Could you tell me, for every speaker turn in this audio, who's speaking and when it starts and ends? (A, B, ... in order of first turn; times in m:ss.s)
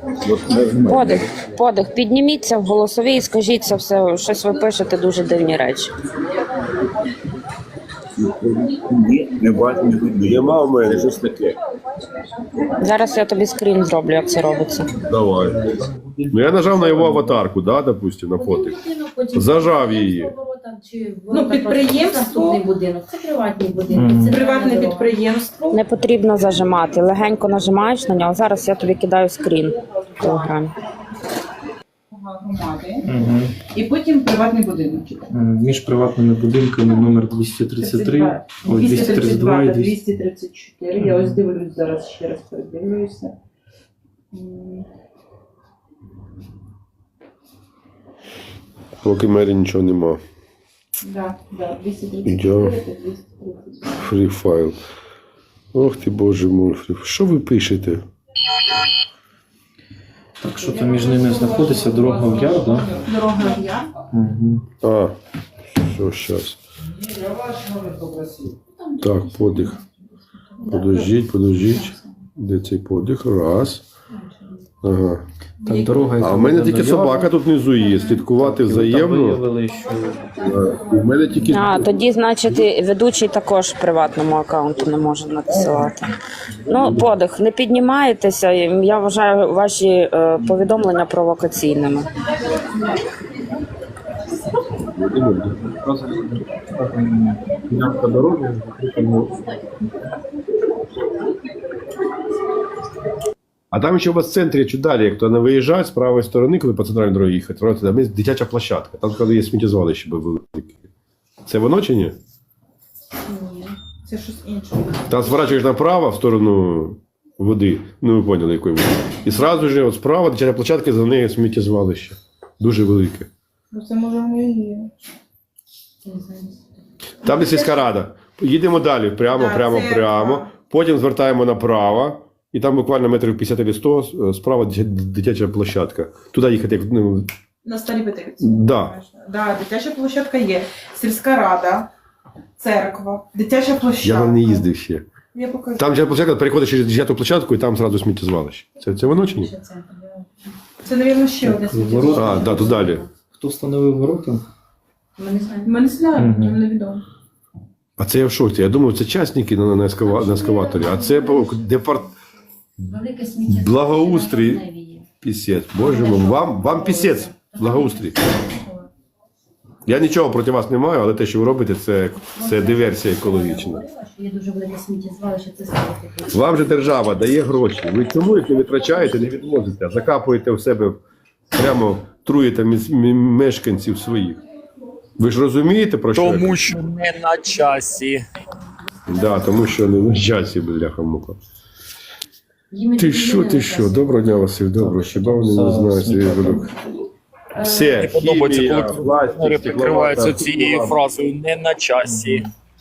0:00.2-0:01.3 A
0:00.9-0:05.9 B
0:08.2-0:11.5 A
0:10.3-0:11.3 C
0:12.8-0:14.9 B
0:15.1-0:15.7 C
0:15.3-0:17.4 D
0:16.3-0:18.8 C
0:18.4-0:25.2 E
0:19.3-0:20.3 C
0:21.3-0:22.6 F
0:23.9-0:24.4 D
0:24.3-0:25.8 F
0:25.7-0:30.7 B
0:32.1-0:33.1 F
0:33.0-0:33.5 D
0:33.7-0:35.3 F
0:35.3-0:40.0 D
0:37.8-0:43.4 F
0:41.0-0:41.4 D
0:44.3-0:44.9 F
0:49.0-0:50.2 C
0:51.0-0:54.0 F
0:52.2-0:52.8 C
0:54.0-0:54.8 C
0:55.7-0:58.0 C
1:00.4-1:02.9 D
1:00.6-1:03.9 F
1:03.4-1:03.8 E
1:04.1-1:04.6 D
1:04.8-1:05.2 C
1:05.7-1:06.6 C
1:08.9-1:09.8 E
1:09.0-1:09.8 C
1:10.4-1:12.0 E
1:10.7-1:13.8 C
1:14.1-1:14.7 E
1:14.8-1:15.2 C
1:15.6-1:16.1 F
1:15.6-1:17.3 D
1:16.2-1:19.4 C
1:18.3-1:20.3 D
1:20.4-1:21.9 C
1:21.4-1:26.1 B
1:26.7-1:32.1 B
1:34.9-1:36.4 C
1:36.7-1:37.5 D
1:37.7-1:39.3 C
1:43.7-1:50.8 C
1:51.5-1:52.2 C
1:53.3-1:53.8 E
1:54.0-1:55.3 F
1:55.1-2:03.3 C
2:03.7-2:04.9 F
2:06.0-2:06.6 E
2:07.2-2:17.3 C
2:07.3-2:07.7 F
2:09.3-2:10.5 F
2:17.6-2:21.9 F
2:18.4-2:19.0 C
2:22.6-2:24.7 F
2:24.0-2:25.1 C
2:25.3-2:26.0 F
2:25.8-2:29.5 C
2:28.9-2:30.5 E
2:30.8-2:32.8 F
2:31.4-2:34.4 D
2:32.0-2:33.1 E
2:32.1-2:33.1 C
2:35.2-2:35.7 E
2:35.6-2:37.0 F
2:36.2-2:36.6 D
2:38.0-2:42.1 C
2:40.0-2:41.9 E
2:42.9-2:45.1 E
2:43.5-2:44.6 C
2:45.2-2:48.2 C
2:45.8-2:48.9 E
2:49.9-2:53.8 C
2:52.3-2:56.5 E
2:56.3-3:01.0 C
3:01.5-3:04.4 C
3:05.2-3:06.8 C
3:06.2-3:08.3 G
3:09.1-3:11.4 C
3:09.1-3:09.6 E
3:12.7-3:14.3 E
3:13.0-3:16.7 C
3:14.7-3:16.7 D
3:17.6-3:21.0 C
3:17.6-3:17.9 E
3:17.9-3:22.5 G
3:22.0-3:22.5 D